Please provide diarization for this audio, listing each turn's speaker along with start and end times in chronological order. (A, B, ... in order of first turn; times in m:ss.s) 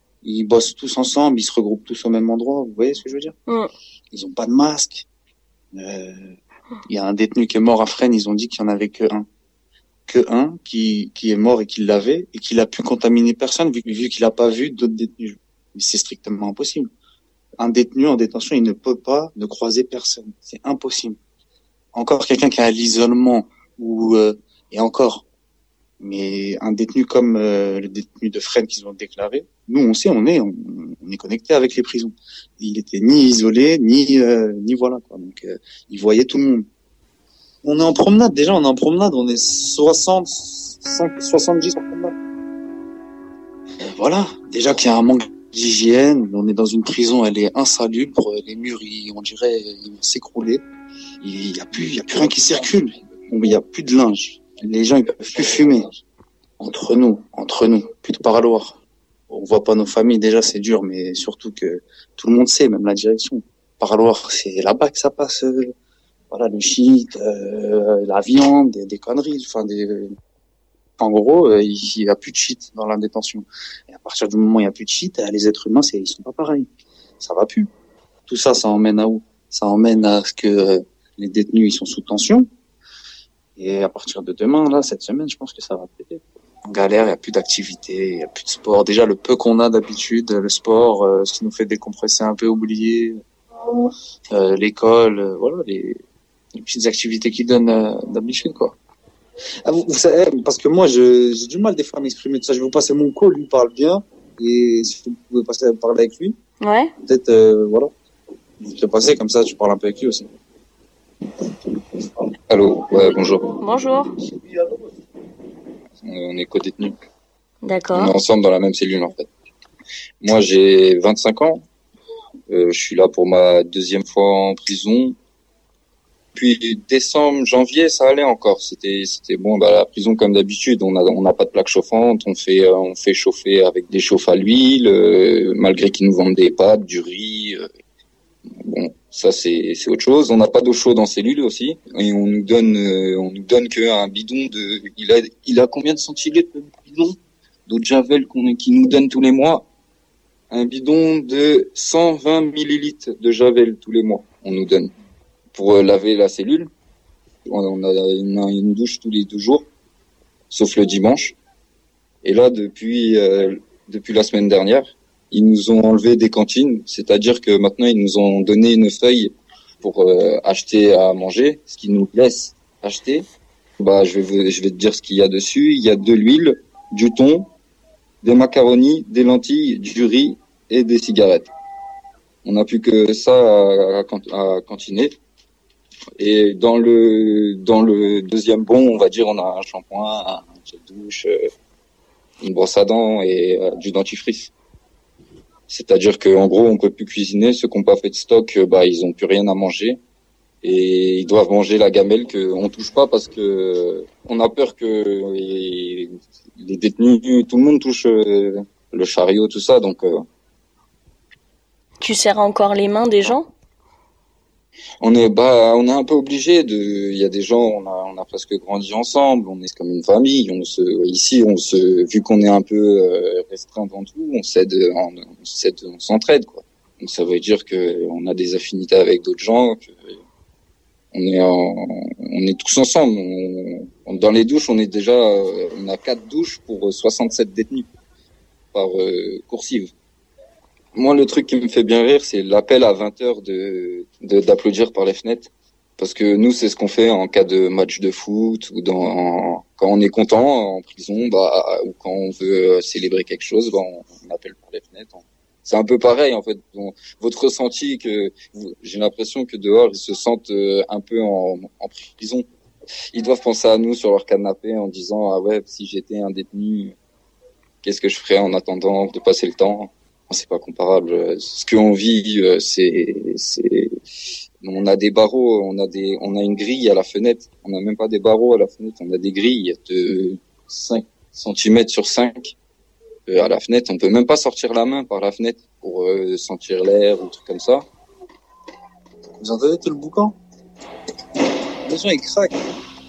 0:00.2-0:03.3 A
0:04.1-0:05.0 A
0:05.7-0:09.3 A
0:10.1-0:16.9 A
0:17.6-0:21.2 A
0:21.9-0:25.2 A
0:26.0-0:36.7 A
0:37.6-0:42.1 A
0:43.8-0:50.6 A
0:51.2-0:55.9 A
0:56.6-0:58.8 A
0:59.3-1:05.7 A
1:06.3-1:10.1 A
1:11.0-1:16.7 A
1:17.2-1:17.7 A
1:18.3-1:22.5 A
1:23.6-1:33.2 A
1:34.3-1:36.0 A
1:36.5-1:38.7 A
1:39.6-1:46.4 A
1:46.6-1:46.9 B
1:47.0-1:47.9 A
1:48.6-1:50.3 A
1:52.5-1:53.6 C
1:53.6-1:54.1 B
1:56.0-1:56.9 C
1:57.6-1:58.1 B
1:57.9-1:59.3 C
2:00.2-2:01.6 C
2:02.5-2:05.2 C
2:06.3-2:17.6 C
2:18.6-2:27.2 C
2:27.7-2:29.6 C
2:30.5-2:34.9 C
2:35.5-2:36.7 C
2:37.4-2:39.7 C
2:40.5-2:41.3 C
2:42.2-2:53.2 C
2:53.8-2:57.5 C
2:58.2-3:01.5 C
3:02.4-3:05.1 C
3:06.2-3:11.4 C
3:12.4-3:14.5 C
3:15.7-3:20.0 C
3:20.6-3:30.2 C
3:32.0-3:33.5 B
3:35.0-3:50.2 C
3:51.1-3:57.9 C
3:58.7-3:59.9 C
4:00.9-4:22.4 C
4:23.1-4:26.9 C
4:27.8-4:33.9 C
4:34.6-4:42.5 C
4:43.3-4:47.8 C
4:49.4-4:50.4 A
4:51.8-4:52.5 A